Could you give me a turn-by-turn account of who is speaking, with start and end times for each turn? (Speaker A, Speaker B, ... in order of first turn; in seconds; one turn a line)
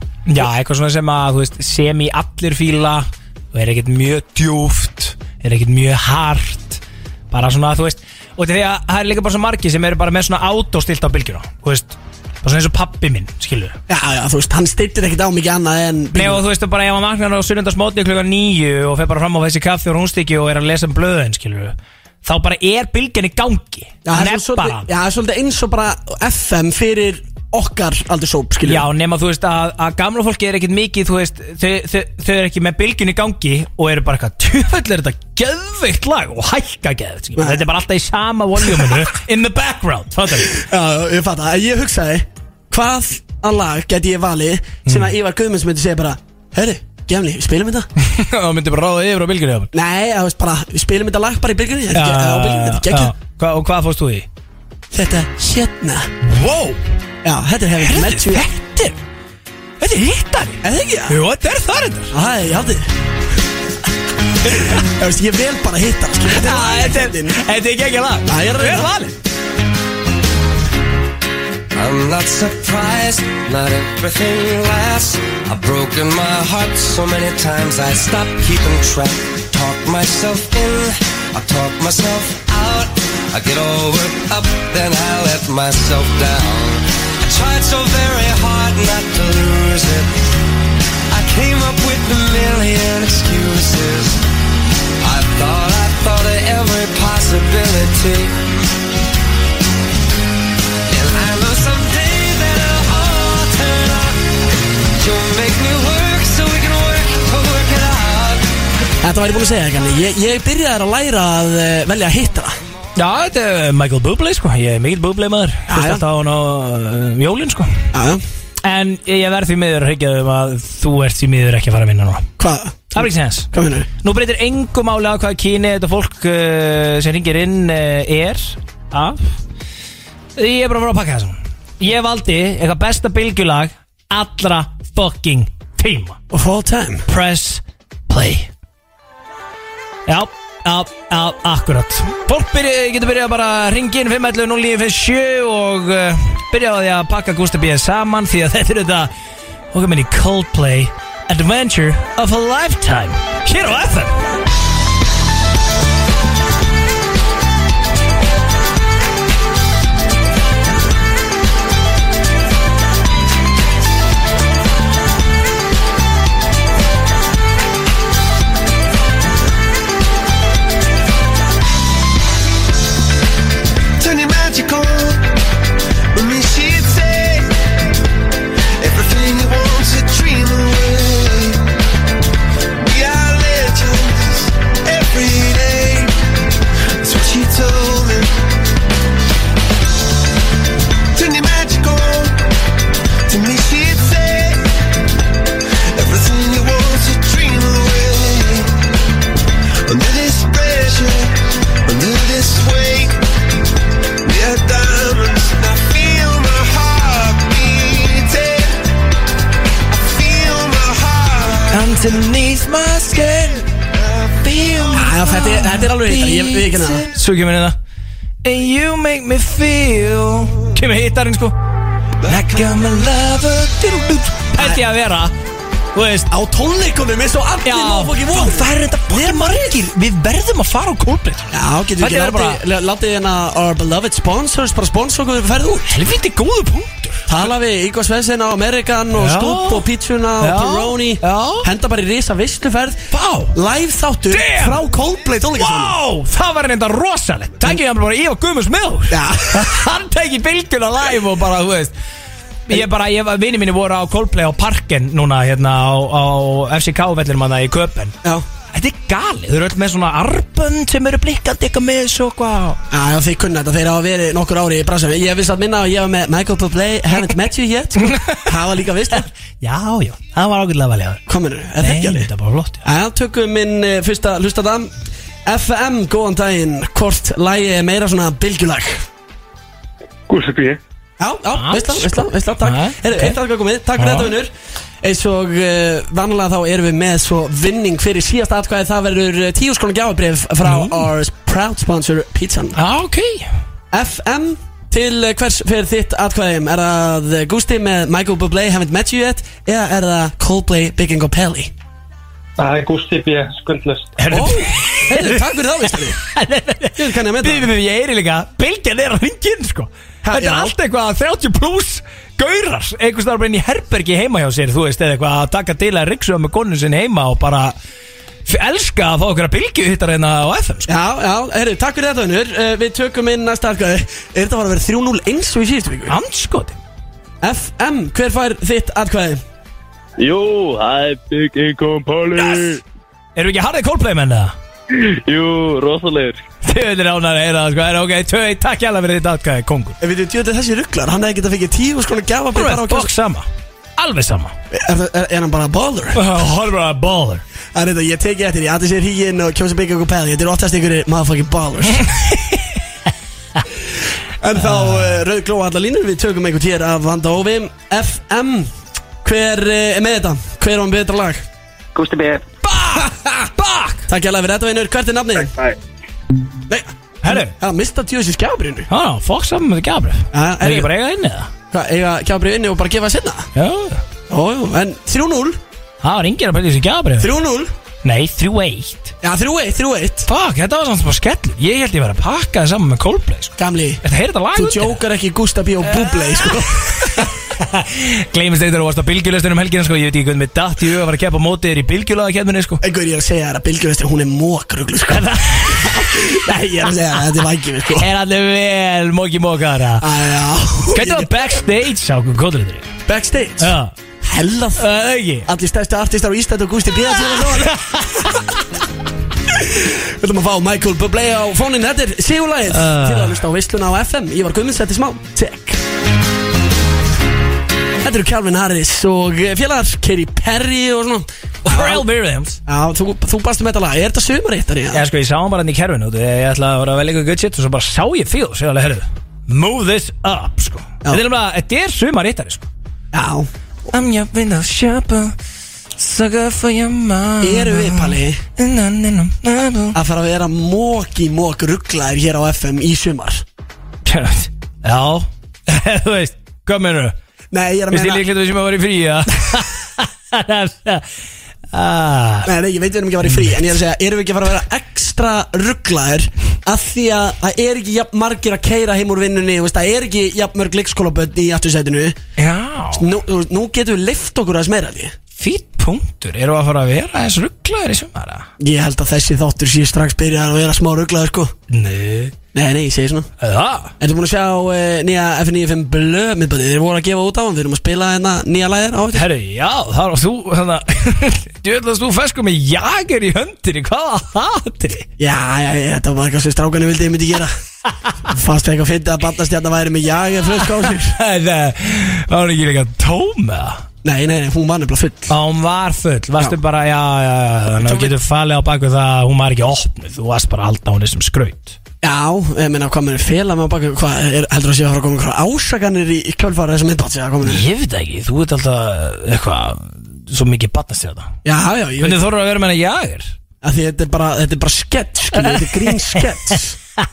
Speaker A: 0.3-13.8
Speaker B: 13.9-16.4
Speaker A: 16.1-24.9
Speaker B: 24.0-28.9
Speaker A: 28.6-40.6
Speaker B: 37.4-37.6
Speaker B: 40.4-47.9
Speaker A: 44.8-45.1
Speaker A: 48.0-49.7
Speaker B: 49.7-53.1
Speaker A: 51.9-54.3
Speaker B: 54.9-56.1
Speaker A: 56.2-56.8
Speaker B: 57.2-58.5
Speaker A: 57.8-59.0
Speaker A: 59.8-62.1
Speaker B: 60.6-61.2
Speaker B: 62.1-62.9
Speaker B: 64.4-67.4
Speaker A: 66.3-69.1
Speaker B: 68.2-68.9
Speaker C: 71.7-90.3
Speaker C: 91.1-94.2
Speaker C: 95.0-98.4
Speaker C: 100.9-104.2
Speaker C: 104.9-108.5
Speaker B: 109.0-112.6
Speaker A: 113.0-117.9
Speaker B: 115.7-116.0
Speaker B: 117.9-118.2
Speaker A: 118.6-122.3
Speaker B: 122.4-123.9
Speaker A: 122.9-123.5
Speaker A: 124.0-129.3
Speaker A: 130.4-136.2
Speaker B: 136.3-137.1
Speaker A: 137.1-138.5
Speaker A: 140.1-149.1
Speaker A: 149.7-154.2
Speaker D: 174.0-175.3
Speaker D: 176.1-177.5
Speaker D: 178.8-181.7
Speaker D: 182.8-186.2
Speaker D: 187.0-188.4
Speaker D: 191.1-192.5
Speaker D: 193.3-194.7
Speaker D: 195.9-198.7
Speaker D: 199.8-203.2
Speaker D: 204.2-208.8
Speaker D: 209.9-211.9
Speaker A: 211.7-213.7
Speaker D: 214.0-214.3
Speaker A: 214.4-217.8
Speaker B: 214.9-217.0
Speaker A: 218.4-221.6
Speaker A: 222.2-225.3
Speaker A: 225.9-226.3
Speaker B: 226.3-229.8
Speaker A: 227.6-232.6
Speaker B: 231.5-235.9
Speaker A: 235.9-237.3
Speaker B: 237.3-245.9
Speaker A: 239.1-239.9
Speaker A: 240.4-241.7
Speaker A: 243.1-243.5
Speaker A: 244.3-244.8
Speaker A: 245.5-251.9
Speaker B: 249.1-249.7
Speaker A: 252.7-258.1
Speaker A: 258.7-262.8
Speaker B: 262.9-269.3
Speaker A: 268.1-268.4
Speaker A: 269.2-271.2
Speaker B: 271.3-272.3
Speaker A: 271.8-272.8
Speaker B: 272.8-274.9
Speaker B: 275.4-279.0
Speaker E: 280.3-280.8
Speaker B: 281.2-292.8
Speaker A: 281.5-283.4
Speaker A: 284.0-284.3
Speaker A: 290.6-291.1
Speaker A: 292.7-293.5
Speaker B: 293.9-301.7
Speaker E: 302.6-304.1
Speaker A: 304.2-305.4
Speaker B: 304.3-306.2
Speaker A: 306.1-317.7
Speaker B: 306.9-307.7
Speaker B: 310.2-310.7
Speaker A: 318.4-320.9
Speaker B: 320.9-326.1
Speaker A: 326.1-326.8
Speaker B: 327.4-329.4
Speaker F: 330.2-332.8
Speaker A: 333.4-334.5
Speaker F: 334.9-336.4
Speaker A: 336.6-340.0
Speaker B: 340.0-343.1
Speaker A: 342.5-344.5
Speaker B: 344.7-346.2
Speaker A: 346.1-347.4
Speaker B: 347.7-352.1
Speaker A: 352.0-352.6
Speaker B: 354.4-358.7
Speaker A: 354.6-355.1
Speaker B: 359.2-361.4
Speaker A: 362.6-364.1
Speaker B: 364.1-365.5
Speaker B: 366.7-368.9
Speaker A: 367.2-367.5
Speaker A: 368.9-371.5
Speaker B: 370.3-370.9
Speaker B: 371.7-373.5
Speaker A: 373.5-374.0
Speaker B: 374.3-375.6
Speaker A: 376.0-377.3
Speaker B: 377.2-377.7
Speaker A: 378.0-379.1
Speaker B: 379.2-380.3
Speaker A: 380.2-385.0
Speaker B: 383.6-384.0
Speaker B: 384.5-387.3
Speaker A: 386.0-392.8
Speaker B: 392.8-398.1
Speaker A: 395.1-397.2
Speaker A: 397.9-400.1
Speaker B: 400.0-401.5
Speaker A: 400.9-402.9
Speaker B: 403.1-404.8
Speaker A: 403.6-403.9
Speaker A: 404.8-405.5
Speaker B: 405.4-407.8
Speaker A: 407.3-408.4
Speaker B: 409.5-415.8
Speaker A: 412.7-413.4
Speaker B: 418.0-422.0
Speaker A: 421.6-422.6
Speaker B: 422.6-425.0
Speaker A: 424.9-432.7
Speaker B: 433.1-433.5
Speaker A: 433.9-435.3
Speaker A: 435.9-440.0
Speaker B: 437.4-438.4
Speaker B: 439.9-443.4
Speaker A: 444.1-447.1
Speaker B: 447.5-448.2
Speaker A: 447.9-451.1
Speaker A: 451.7-452.5
Speaker B: 452.4-462.2
Speaker A: 462.4-463.1
Speaker B: 462.9-465.1
Speaker A: 465.4-468.5
Speaker B: 468.6-471.5
Speaker A: 471.7-472.3
Speaker B: 472.5-473.3
Speaker A: 473.4-473.9
Speaker B: 474.0-479.2
Speaker A: 479.1-485.1
Speaker B: 485.2-487.5
Speaker B: 488.2-491.1
Speaker A: 490.8-493.8
Speaker B: 494.0-495.3
Speaker A: 495.3-501.8
Speaker B: 497.8-498.1
Speaker B: 502.0-507.6
Speaker A: 507.4-511.3
Speaker B: 511.4-512.2
Speaker A: 512.0-513.3
Speaker B: 513.6-516.8
Speaker A: 515.4-516.2